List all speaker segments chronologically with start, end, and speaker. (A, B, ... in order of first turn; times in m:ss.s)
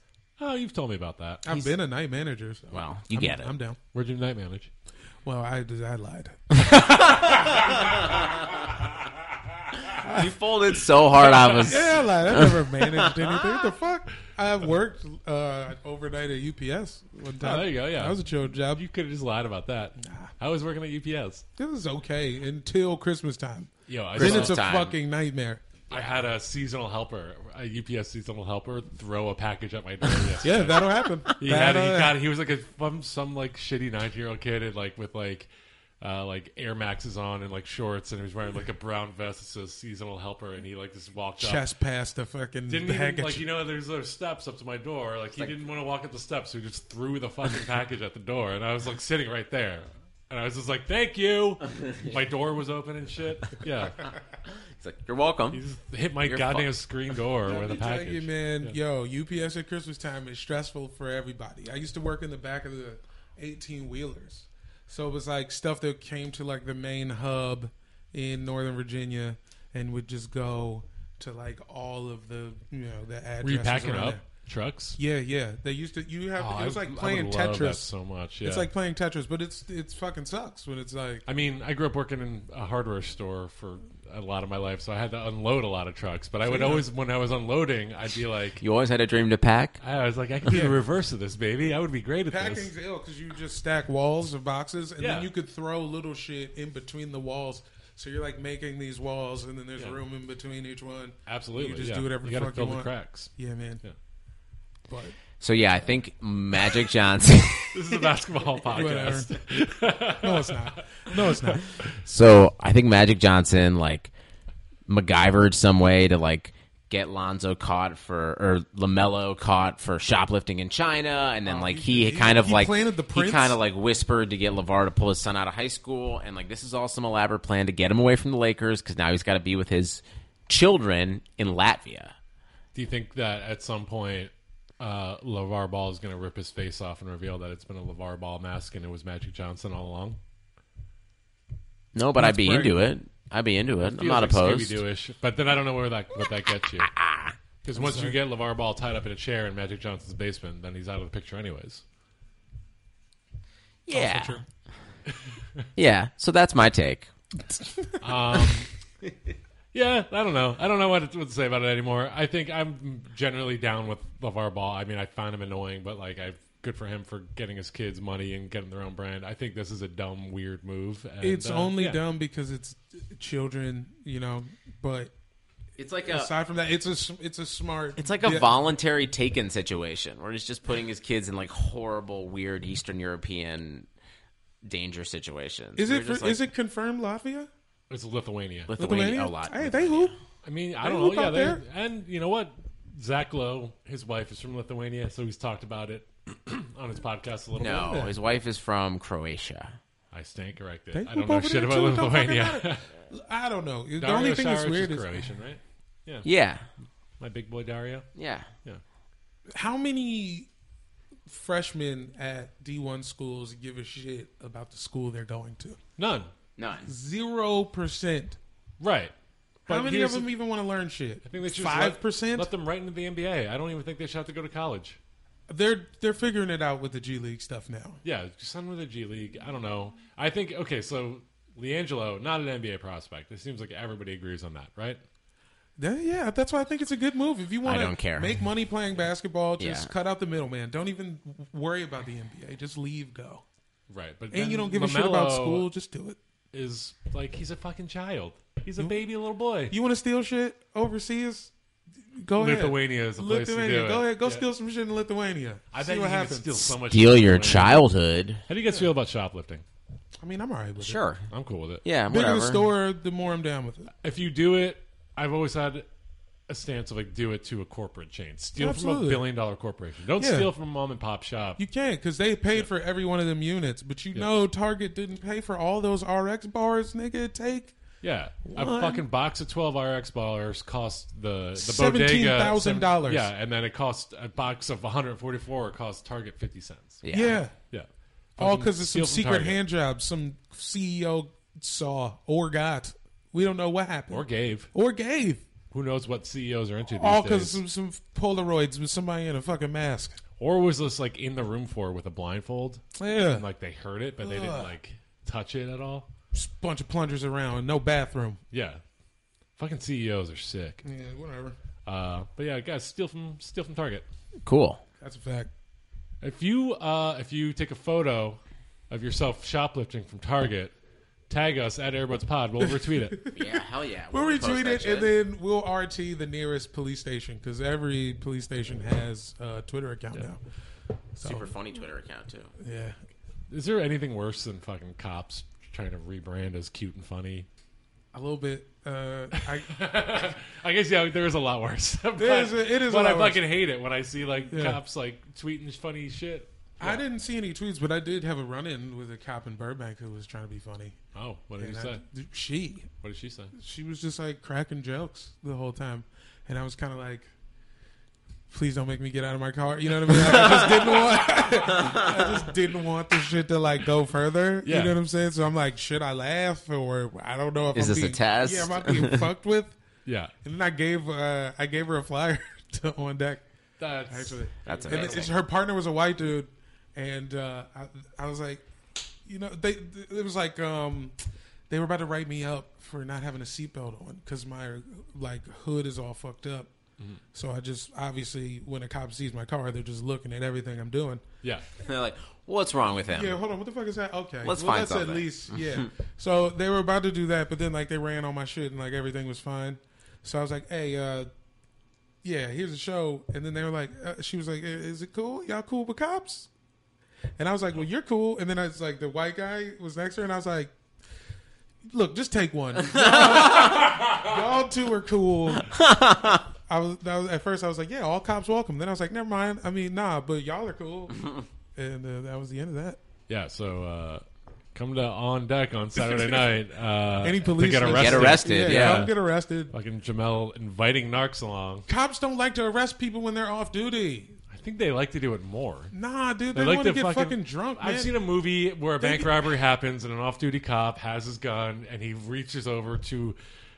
0:00.4-0:01.5 A
0:01.4-0:03.8 B
0:02.7-0:03.5 C
0:03.9-0:04.7 A
0:05.2-0:07.4 B
0:06.6-0:08.8 C
0:09.8-0:13.4 C
0:11.2-0:11.9 A
0:11.6-0:18.8 B
0:17.4-0:21.4 A
0:20.0-0:20.3 B
0:21.6-0:25.7 B
0:23.9-0:24.6 A
0:24.2-0:25.0 C
0:25.9-0:26.2 C
0:25.9-0:35.5 A
0:30.4-0:32.2 B
0:36.0-0:41.6 A
0:41.4-0:43.5 B
0:42.7-0:54.1 A
0:54.7-0:55.6 C
0:55.5-0:58.8 A
0:56.2-0:56.7 C
0:57.4-1:14.2 B
1:13.4-1:15.0 A
1:15.0-1:17.9 B
1:16.4-1:18.7 A
1:18.4-1:21.2 B
1:21.3-1:28.6 A
1:26.4-1:26.9 B
1:28.6-1:29.8 C
1:29.8-1:32.7 A
1:30.5-1:30.8 B
1:32.3-1:43.8 B
1:35.0-1:35.3 A
1:41.3-1:43.9 A
1:44.9-1:45.2 B
1:45.4-1:48.0 C
1:47.7-1:51.8 A
1:48.7-1:49.3 B
1:50.2-1:51.7 B
1:52.0-1:54.1 C
1:54.9-2:12.2 C
2:01.4-2:03.6 B
2:12.8-2:20.2 A
2:22.0-2:24.8 C
2:22.2-2:22.8 B
2:23.8-2:27.0 A
2:26.8-2:27.4 C
2:27.6-2:31.8 A
2:27.7-2:28.2 B
2:33.9-2:34.4 C
2:33.9-2:34.4 B
2:35.1-2:35.6 A
2:35.8-2:37.1 C
2:38.0-2:38.7 A
2:39.7-2:52.0 A
2:51.2-2:55.1 B
2:55.8-2:56.3 C
2:56.1-2:58.5 B
2:58.0-3:03.9 C
3:04.6-3:06.4 C
3:05.8-3:07.5 B
3:07.9-3:08.7 A
3:08.7-3:10.1 C
3:08.8-3:10.1 B
3:10.4-3:18.0 A
3:10.8-3:11.6 B
3:17.6-3:19.8 C
3:17.6-3:18.1 B
3:20.1-3:22.9 A
3:20.9-3:25.3 B
3:24.0-3:26.3 A
3:26.2-3:26.7 C
3:27.2-3:28.1 A
3:28.2-3:28.5 C
3:29.5-3:30.5 B
3:31.3-3:35.8 B
3:36.0-3:36.3 A
3:36.6-3:36.9 C
3:36.9-3:38.4 B
3:38.8-3:39.1 A
3:39.7-3:40.3 A
3:39.7-3:42.5 B
3:41.3-3:45.0 A
3:45.5-3:48.0 B
3:48.0-3:55.0 A
3:55.8-4:03.4 B
3:57.6-3:58.4 C
3:59.6-3:59.9 C
4:03.9-4:05.7 A
4:04.3-4:06.2 B
4:06.5-4:09.7 A
4:09.7-4:11.5 B
4:12.1-4:16.8 B
4:12.4-4:14.4 A
4:15.7-4:17.8 A
4:16.8-4:18.4 C
4:18.5-4:19.6 A
4:18.6-4:18.9 B
4:20.2-4:21.0 B
4:20.8-4:21.3 C
4:21.3-4:21.8 A
4:21.8-4:22.7 C
4:22.1-4:23.9 B
4:24.0-4:25.9 A
4:26.5-4:31.6 A
4:28.6-4:29.2 B
4:30.2-4:30.5 B
4:31.6-4:37.8 B
4:38.0-4:47.0 A
4:38.5-4:39.0 B
4:41.6-4:43.3 B
4:47.0-4:47.4 C
4:47.1-4:47.6 B
4:47.7-4:49.6 A
4:48.4-4:55.4 B
4:54.1-4:54.7 A
4:55.7-4:57.6 A
4:56.9-5:00.2 B
5:00.4-5:06.1 A
5:03.0-5:03.5 B
5:04.2-5:04.7 B
5:06.3-5:08.4 B
5:08.5-5:08.8 A
5:09.6-5:10.8 A
5:10.8-5:11.6 B
5:11.8-5:14.1 A
5:14.4-5:14.8 C
5:15.0-5:15.5 B
5:16.2-5:18.4 A
5:18.9-5:20.7 A
5:21.3-5:23.3 A
5:22.6-5:23.6 B
5:23.3-5:25.2 C
5:24.1-5:30.4 B
5:31.2-5:31.6 B
5:31.2-5:32.5 C
5:32.6-5:33.0 B
5:33.5-5:37.5 A
5:38.1-5:40.3 B
5:39.4-5:47.0 A
5:42.2-5:43.4 B
5:44.5-5:44.8 B
5:46.8-5:51.0 B
5:51.1-5:52.0 A
5:51.6-5:52.9 B
5:53.0-5:53.5 A
5:53.5-5:57.3 B
5:58.5-6:09.8 B
6:00.2-6:00.9 C
6:01.8-6:02.2 C
6:04.6-6:05.0 A
6:07.7-6:09.3 C
6:10.1-6:10.3 A
6:10.4-6:13.4 B
6:13.8-6:15.3 A
6:14.1-6:18.6 B
6:14.7-6:15.4 C
6:19.2-6:21.2 B
6:21.7-6:26.7 B
6:27.3-6:31.2 B
6:31.8-6:33.4 C
6:33.1-6:41.3 B
6:34.4-6:35.9 C
6:42.2-6:46.5 B
6:47.4-6:50.7 B
6:51.9-6:55.8 B
6:52.8-6:53.9 C
6:55.7-6:56.4 C
6:56.7-7:03.0 B
7:03.3-7:11.9 A
7:06.0-7:06.6 B
7:07.2-7:09.7 B
7:07.9-7:09.1 C
7:11.9-7:14.4 B
7:14.5-7:15.9 A
7:15.9-7:18.2 B
7:16.5-7:23.4 A
7:19.0-7:19.5 B